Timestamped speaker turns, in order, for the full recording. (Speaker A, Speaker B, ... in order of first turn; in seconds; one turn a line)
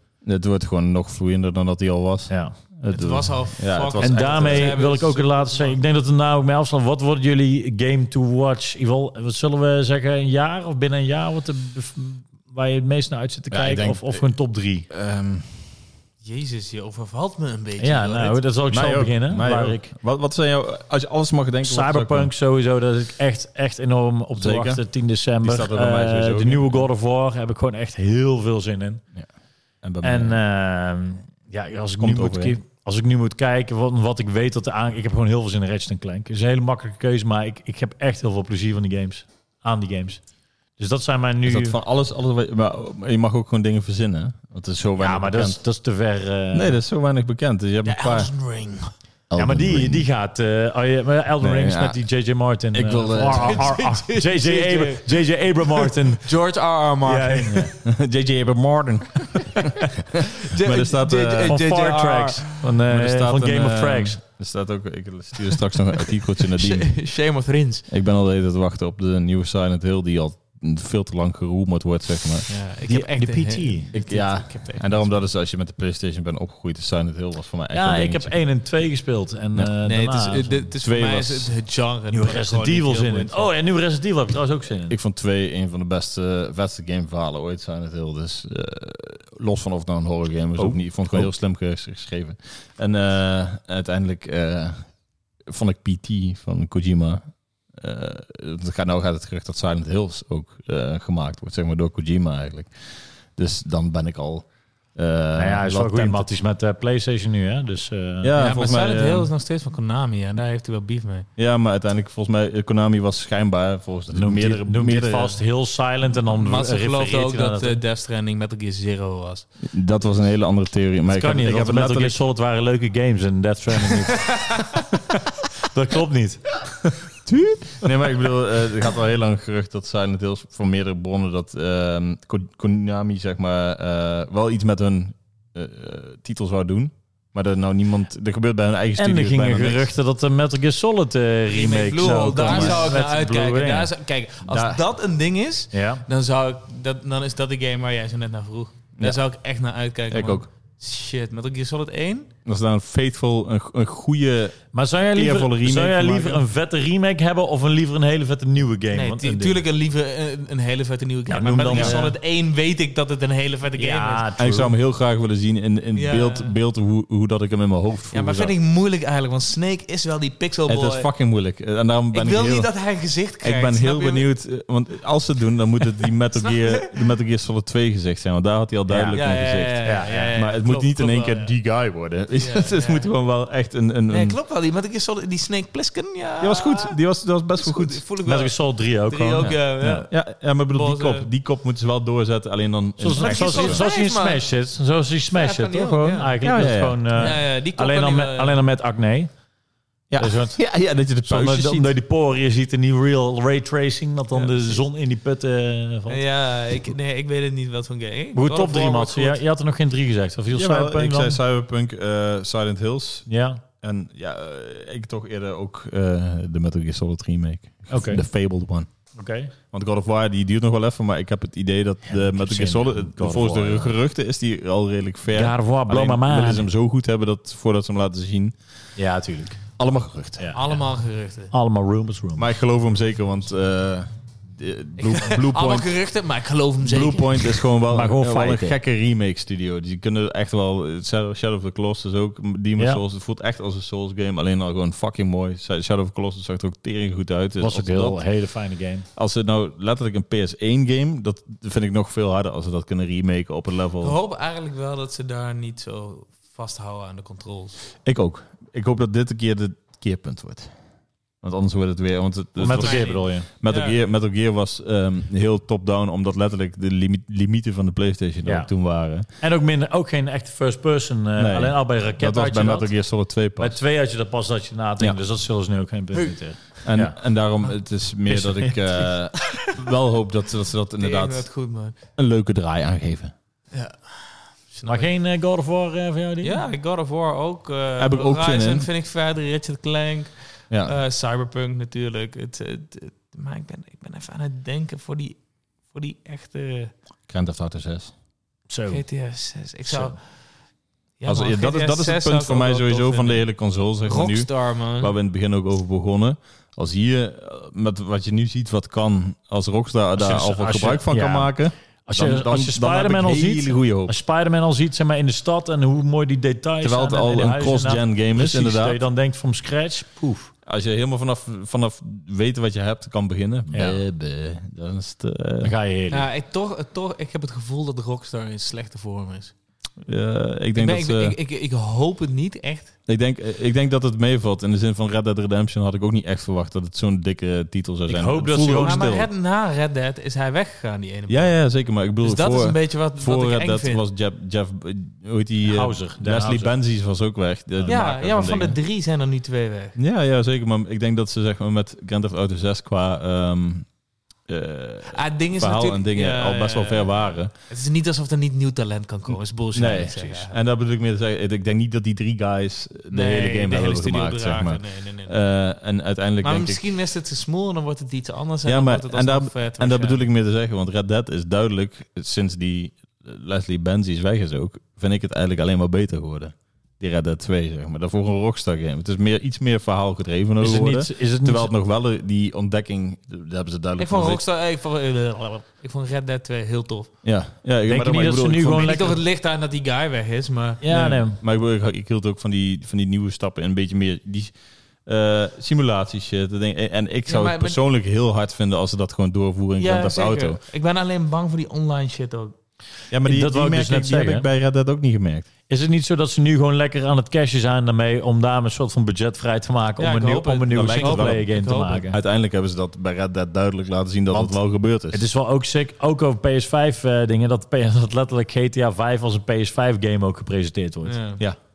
Speaker A: 0.2-4.8
Speaker B: 2.3-2.5
Speaker C: 2.9-5.8
Speaker B: 4.0-14.9
Speaker A: 13.5-14.3
Speaker A: 14.9-15.7
Speaker C: 16.2-18.4
Speaker B: 17.8-19.9
Speaker A: 18.7-22.3
Speaker B: 21.6-29.0
Speaker A: 24.4-24.8
Speaker A: 25.4-26.9
Speaker A: 29.8-30.4
Speaker B: 30.0-40.2
Speaker A: 32.0-32.5
Speaker B: 40.8-41.8
Speaker A: 41.4-45.6
Speaker B: 45.0-46.8
Speaker A: 46.5-48.3
Speaker C: 47.8-48.9
Speaker A: 49.3-50.1
Speaker B: 49.4-56.3
Speaker A: 51.4-52.0
Speaker A: 52.7-53.7
Speaker C: 53.3-57.7
Speaker B: 57.0-57.7
Speaker A: 57.7-61.7
Speaker C: 60.3-62.5
Speaker B: 61.4-64.2
Speaker A: 62.8-66.9
Speaker C: 66.5-67.8
Speaker A: 67.9-72.5
Speaker C: 72.5-75.2
Speaker B: 72.8-73.9
Speaker A: 73.9-78.4
Speaker B: 77.7-80.7
Speaker C: 79.8-83.5
Speaker A: 80.8-81.5
Speaker B: 82.1-85.0
Speaker A: 84.9-94.8
Speaker B: 90.5-91.3
Speaker A: 95.5-97.2
Speaker A: 97.7-102.7
Speaker A: 103.3-106.3
Speaker B: 105.3-108.3
Speaker A: 108.2-109.3
Speaker C: 108.4-111.3
Speaker A: 111.4-115.4
Speaker B: 114.1-117.8
Speaker C: 116.3-119.5
Speaker A: 119.6-122.2
Speaker B: 121.1-124.8
Speaker C: 124.3-124.7
Speaker B: 125.6-126.4
Speaker A: 126.8-139.9
Speaker B: 139.0-143.9
Speaker C: 141.5-152.3
Speaker A: 142.0-142.9
Speaker A: 144.5-144.8
Speaker B: 145.7-146.0
Speaker A: 150.1-150.5
Speaker A: 152.4-154.6
Speaker B: 154.7-159.6
Speaker A: 155.1-156.4
Speaker C: 158.9-164.3
Speaker B: 161.3-162.1
Speaker A: 161.7-162.0
Speaker B: 163.8-164.7
Speaker A: 164.4-168.5
Speaker C: 165.9-166.5
Speaker C: 168.1-171.1
Speaker A: 170.7-172.7
Speaker C: 172.1-174.3
Speaker A: 173.4-184.4
Speaker C: 176.4-176.9
Speaker B: 178.9-179.2
Speaker C: 179.1-181.5
Speaker B: 179.8-180.4
Speaker C: 182.4-183.1
Speaker C: 184.1-187.0
Speaker A: 186.4-188.0
Speaker C: 187.6-190.1
Speaker B: 188.2-190.1
Speaker A: 189.4-193.8
Speaker C: 190.7-191.3
Speaker B: 193.0-199.3
Speaker C: 193.1-194.4
Speaker C: 195.3-196.3
Speaker A: 196.4-197.3
Speaker C: 197.2-198.6
Speaker A: 200.1-201.9
Speaker B: 200.2-200.6
Speaker B: 201.2-206.2
Speaker C: 204.3-204.8
Speaker C: 206.1-209.4
Speaker B: 208.3-211.4
Speaker A: 210.5-213.3
Speaker B: 213.3-213.6
Speaker A: 213.8-218.9
Speaker B: 217.9-218.2
Speaker B: 219.1-219.5
Speaker A: 219.7-228.5
Speaker B: 222.1-223.9
Speaker B: 225.3-226.7
Speaker B: 228.9-229.6
Speaker A: 229.8-230.7
Speaker B: 230.4-230.7
Speaker C: 230.5-231.5
Speaker B: 231.5-232.5
Speaker A: 232.4-235.9
Speaker C: 235.0-237.6
Speaker A: 236.8-248.2
Speaker B: 237.9-238.8
Speaker B: 247.6-249.1
Speaker A: 249.1-254.2
Speaker C: 254.0-257.8
Speaker A: 258.0-260.7
Speaker A: 261.4-269.3
Speaker B: 262.6-263.5
Speaker C: 262.7-264.0
Speaker B: 268.4-268.7
Speaker B: 269.4-272.9
Speaker A: 271.4-273.8
Speaker B: 273.6-277.2
Speaker A: 276.8-281.5
Speaker B: 278.3-279.1
Speaker C: 279.4-279.7
Speaker C: 281.0-281.9
Speaker A: 282.1-283.3
Speaker C: 283.7-285.1
Speaker B: 284.8-286.6
Speaker C: 286.4-295.4
Speaker A: 288.0-288.9
Speaker A: 290.7-290.9
Speaker C: 295.9-296.9
Speaker A: 297.3-298.1
Speaker B: 298.7-299.0
Speaker C: 298.9-300.2
Speaker B: 299.9-300.1
Speaker C: 301.2-303.4
Speaker A: 301.2-314.1
Speaker C: 304.0-305.1
Speaker B: 310.2-311.5
Speaker B: 312.1-320.5
Speaker A: 316.8-319.0
Speaker A: 320.6-325.7
Speaker B: 323.7-324.0
Speaker B: 325.6-326.3
Speaker C: 326.1-329.5
Speaker A: 330.0-331.4
Speaker C: 330.8-332.9
Speaker A: 333.1-339.3
Speaker B: 338.1-339.2
Speaker C: 338.8-341.6
Speaker A: 341.3-348.8
Speaker C: 342.2-344.0
Speaker B: 345.6-346.7
Speaker C: 347.9-350.0
Speaker A: 350.0-353.9
Speaker A: 354.5-357.5
Speaker C: 355.1-360.6
Speaker A: 359.7-366.8
Speaker C: 363.1-365.4
Speaker C: 366.4-370.2
Speaker A: 368.6-384.4
Speaker B: 380.6-381.7
Speaker C: 384.0-387.1
Speaker A: 387.2-389.2
Speaker B: 387.9-389.2
Speaker C: 388.7-390.8
Speaker B: 390.8-391.4
Speaker A: 390.9-400.6
Speaker C: 397.3-397.8
Speaker C: 399.8-402.5
Speaker A: 403.1-405.5
Speaker B: 403.2-404.5
Speaker B: 405.7-412.2
Speaker C: 410.0-412.0
Speaker A: 410.7-411.5
Speaker A: 412.1-415.2
Speaker B: 414.3-414.6
Speaker B: 415.1-421.2
Speaker C: 421.0-421.4